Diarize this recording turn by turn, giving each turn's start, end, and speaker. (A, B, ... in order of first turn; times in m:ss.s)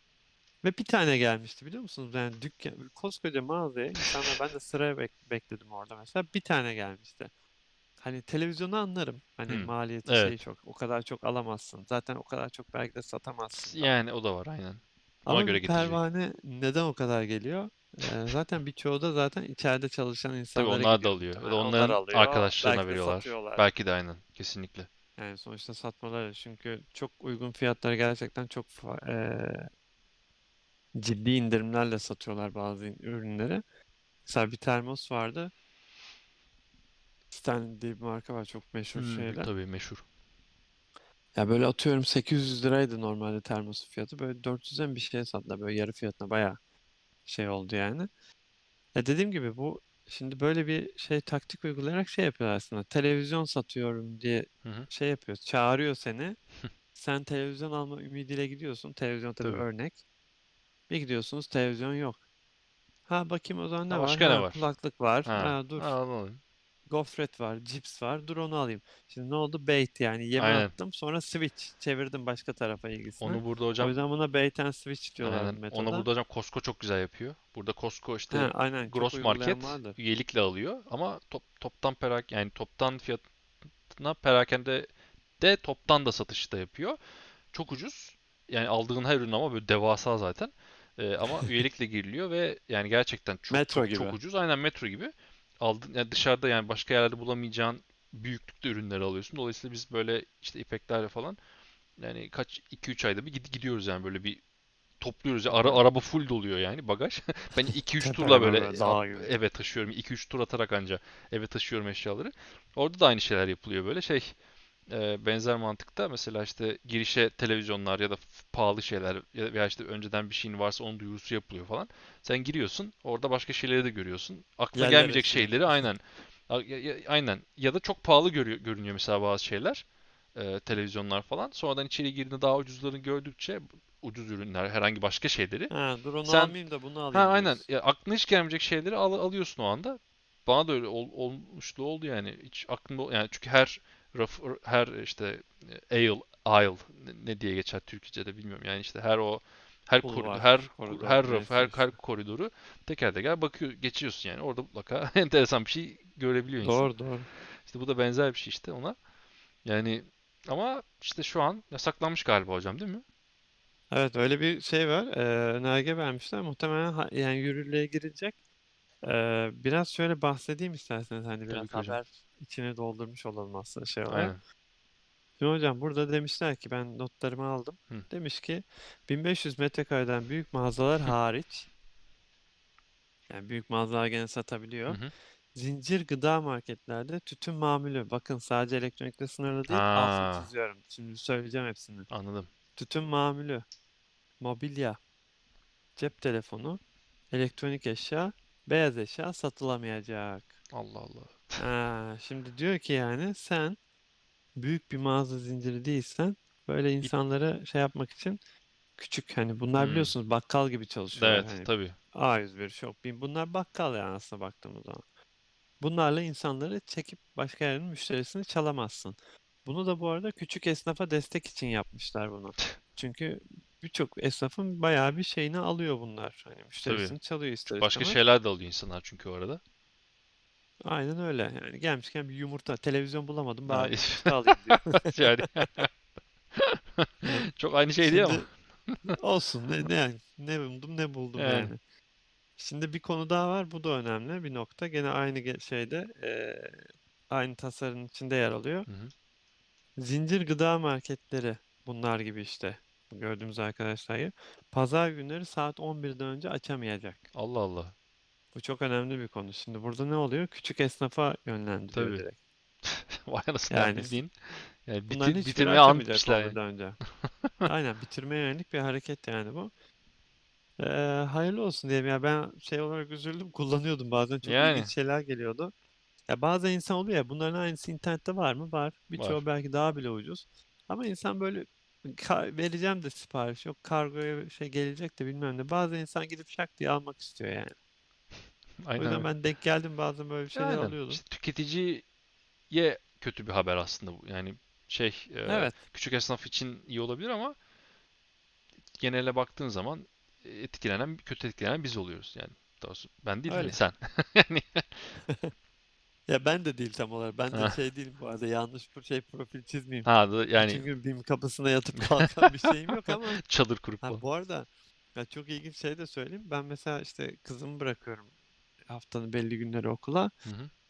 0:00.6-0:07.3 A
0:08.0-0:13.9 A
0:09.5-0:10.4 B
0:13.5-0:16.0 B
0:15.2-0:23.6 A
0:20.5-0:24.9 B
0:25.2-0:29.7 A
0:30.9-0:33.6 A
0:34.2-0:35.5 A
0:37.3-0:39.5 A
0:38.9-0:40.0 B
0:41.3-0:46.6 A
0:47.2-0:48.1 A
0:48.9-0:56.4 A
0:56.9-1:00.0 A
1:00.9-1:02.2 A
1:03.1-1:06.0 A
1:03.9-1:04.6 B
1:05.2-1:06.4 B
1:06.9-1:16.1 A
1:10.4-1:10.7 B
1:13.2-1:13.9 B
1:15.2-1:23.3 B
1:18.3-1:20.0 A
1:23.9-1:27.0 B
1:27.5-1:41.4 B
1:33.5-1:34.2 A
1:42.0-1:44.4 B
1:45.0-2:15.7 B
1:45.5-1:45.8 A
1:48.0-1:49.3 A
2:04.7-2:05.9 A
2:15.7-2:17.6 A
2:16.2-2:16.6 B
2:17.1-2:36.9 B
2:30.0-2:31.9 A
2:36.6-2:37.3 A
2:37.6-2:39.0 B
2:39.6-2:43.0 B
2:43.9-2:48.4 A
2:49.0-2:54.3 A
2:51.5-2:52.0 B
2:54.1-2:54.4 B
2:55.4-3:01.7 A
3:03.3-3:05.0 A
3:05.5-3:12.1 A
3:09.7-3:10.5 B
3:12.1-3:12.5 B
3:12.8-3:13.6 A
3:14.4-3:15.0 A
3:16.0-3:20.6 A
3:20.7-3:21.6 B
3:21.6-3:23.8 A
3:24.6-3:28.4 A
3:29.0-3:35.0 A
3:29.8-3:30.1 B
3:31.1-3:32.0 B
3:35.8-3:48.2 A
3:46.8-3:47.1 B
3:47.6-3:49.6 B
3:50.8-3:55.4 A
3:53.7-3:55.9 B
3:56.6-3:59.1 B
3:58.0-3:58.4 A
3:59.2-4:01.8 A
4:01.4-4:01.7 B
4:02.6-4:08.9 A
4:08.9-4:09.1 B
4:10.0-4:17.2 A
4:17.3-4:17.9 B
4:18.5-4:22.4 A
4:21.9-4:22.2 B
4:22.8-4:26.6 B
4:23.7-4:24.2 A
4:25.1-4:27.0 A
4:27.2-4:27.7 B
4:27.6-4:29.7 A
4:30.8-4:35.7 A
4:34.4-4:34.9 B
4:36.3-4:47.8 A
4:39.1-4:39.4 B
4:48.8-4:49.3 B
4:49.0-4:51.2 A
4:50.5-4:52.1 B
4:52.7-4:57.6 B
4:55.4-4:55.8 A
4:59.0-5:04.9 B
5:03.5-5:03.8 A
5:05.3-5:05.5 A
5:06.3-5:13.4 A
5:07.5-5:07.8 B
5:10.0-5:10.9 B
5:13.4-5:14.2 B
5:14.0-5:18.3 A
5:18.9-5:20.3 A